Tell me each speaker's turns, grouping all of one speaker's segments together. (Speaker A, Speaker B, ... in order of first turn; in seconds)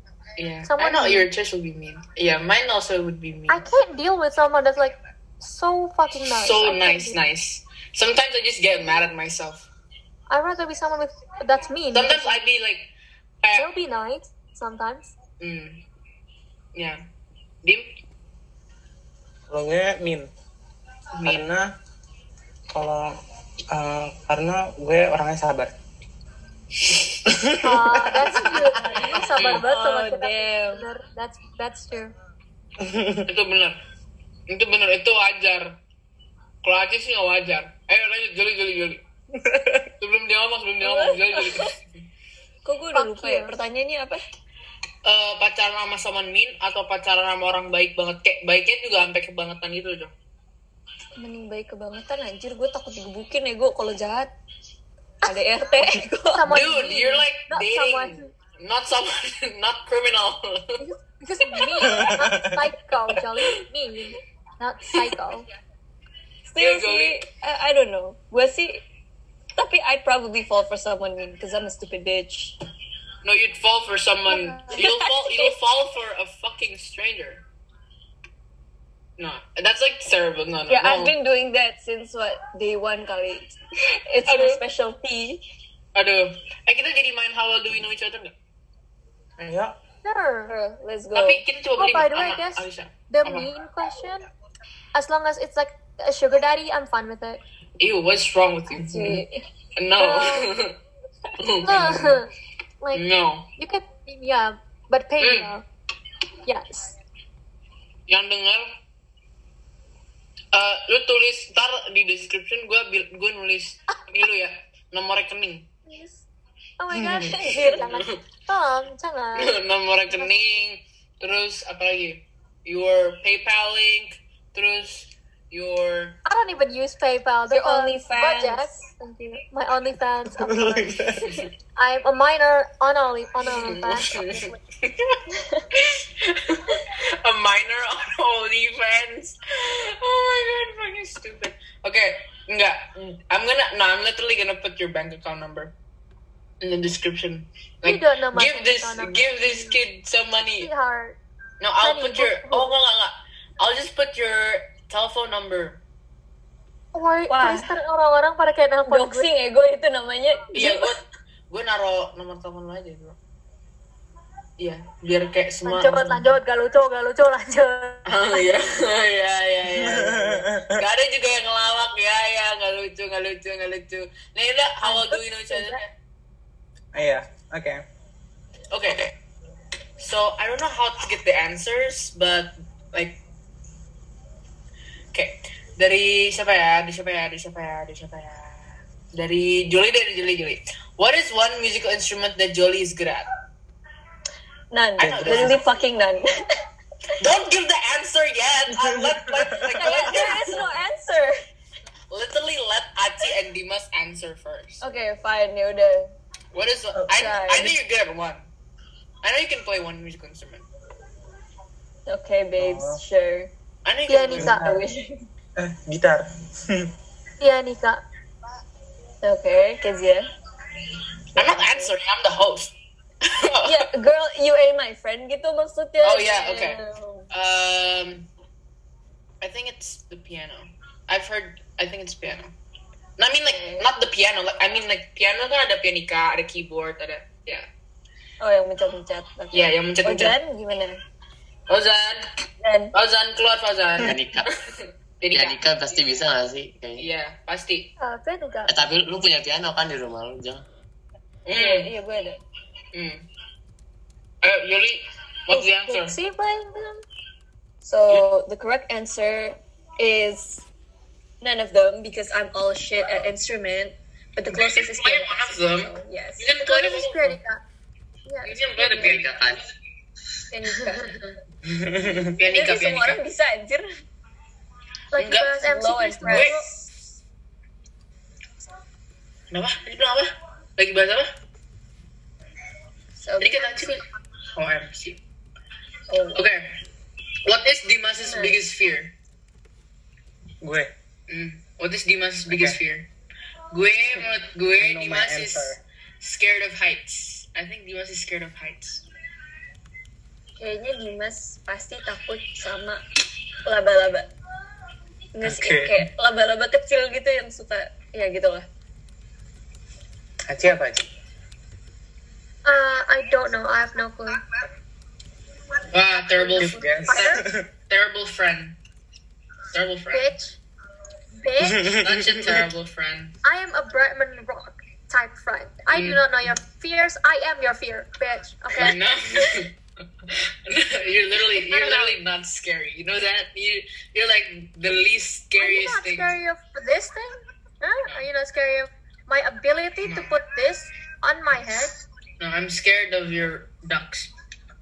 Speaker A: 0.4-3.6, 6.3-9.7, 11.9-12.9, 13.4-13.7, 15.4-15.8, 16.7-17.0, 21.1-21.5, 29.4-29.6, 33.3-33.8, 34.5-35.7, 36.6-39.0, 40.0-41.8, 45.0-50.1, 56.5-60.8, 66.6-67.2, 73.2-77.4, 79.2-81.1, 84.2-84.6, 85.9-88.3, 91.1-93.5, 97.8-99.2, 99.8-100.8, 101.4-102.2, 102.9-103.5, 105.2-105.5, 108.1-108.7, 110.5-115.7, 117.0-118.2, 119.3-126.2, 133.4-135.2, 135.7-145.7, 146.6-150.7, 151.6-155.8, 160.5-163.2, 164.6-166.3, 168.1-175.9, 178.7-179.1, 180.0-183.2, 185.1-193.2, 195.0-195.6, 197.2-200.7, 202.1-204.8, 206.5-208.5, 209.2-210.7, 213.8-214.6, 221.3-223.9, 226.0-226.8, 227.3-228.3, 229.4-232.5, 233.2-237.7, 239.5-240.4, 241.7-242.3, 242.9-245.6, 247.0-247.9, 251.4-251.9, 252.9-253.2, 254.4-256.1, 264.5-267.4, 268.4-269.4, 272.4-273.2, 275.1-275.6, 276.2-276.6, 279.5-281.3, 283.4-284.0, 284.6-285.2, 286.3-286.8, 287.4-289.1, 291.3-293.1, 293.7-299.0, 315.9-318.8, 319.7-320.3, 322.0-323.4, 325.9-326.2, 328.7-329.7, 330.2-336.3, 340.0-340.3, 342.4-344.3
Speaker B: 0.6-1.3, 3.5-7.2, 10.3-12.4, 13.5-15.1, 27.6-32.1, 42.9-43.5, 56.3-58.3, 60.8-65.5, 74.3-74.8, 90.0-90.5, 91.8-94.2, 94.9-97.4, 100.0-100.5, 101.6-102.3, 103.6-105.6, 106.5-106.9, 115.8-116.2, 116.8-119.5, 126.2-131.2, 131.8-134.6, 147.8-149.8, 150.6-151.2, 151.8-152.8, 156.9-159.3, 160.6-160.8, 165.6-168.5, 174.8-175.8, 214.1-214.6, 217.4-218.0, 248.0-248.7, 255.5-257.0, 266.6-267.6, 268.2-269.1, 275.1-276.7, 312.6-314.4, 316.4-317.4, 320.1-320.6, 321.4-322.0, 323.4-329.0, 331.5-332.2, 335.6-342.0
Speaker C: 19.5-20.3, 21.2-21.7, 22.7-23.2, 23.7-25.7, 27.2-29.6, 32.8-33.2, 39.4-39.9, 61.8-62.7, 89.4-89.8, 130.4-131.4, 169.7-170.8, 176.9-177.8, 195.0-195.6, 198.7-200.2, 206.9-207.4, 212.6-213.0, 214.4-214.8, 215.6-216.9, 271.6-272.4, 290.6-290.9, 292.5-292.8, 294.8-295.8, 305.4-306.1, 310.5-311.1, 316.6-317.7, 321.6-322.7
Speaker D: 29.4-30.9, 40.8-41.7, 42.6-44.2, 51.2-54.3, 55.2-56.7, 66.5-68.8, 69.5-72.5, 74.7-75.5, 80.7-85.4, 90.5-91.4, 98.7-99.4, 117.0-118.0, 127.5-128.8, 135.3-135.6, 157.3-157.7, 158.8-160.8, 194.7-196.3, 199.7-201.3, 204.8-206.1, 207.1-207.8, 212.1-213.5, 214.4-215.2, 219.2-220.3, 221.3-221.9, 223.6-227.3, 233.4-233.9, 238.4-241.0, 242.6-242.9, 251.5-252.4, 257.8-260.6, 261.4-266.5, 270.5-271.1, 272.4-274.0, 275.6-276.8, 283.2-283.9, 286.1-286.4, 288.2-288.6, 300.6-303.0, 303.6-304.3, 305.3-308.7
Speaker E: 244.0-244.5, 245.3-247.1, 248.7-250.6, 269.0-269.7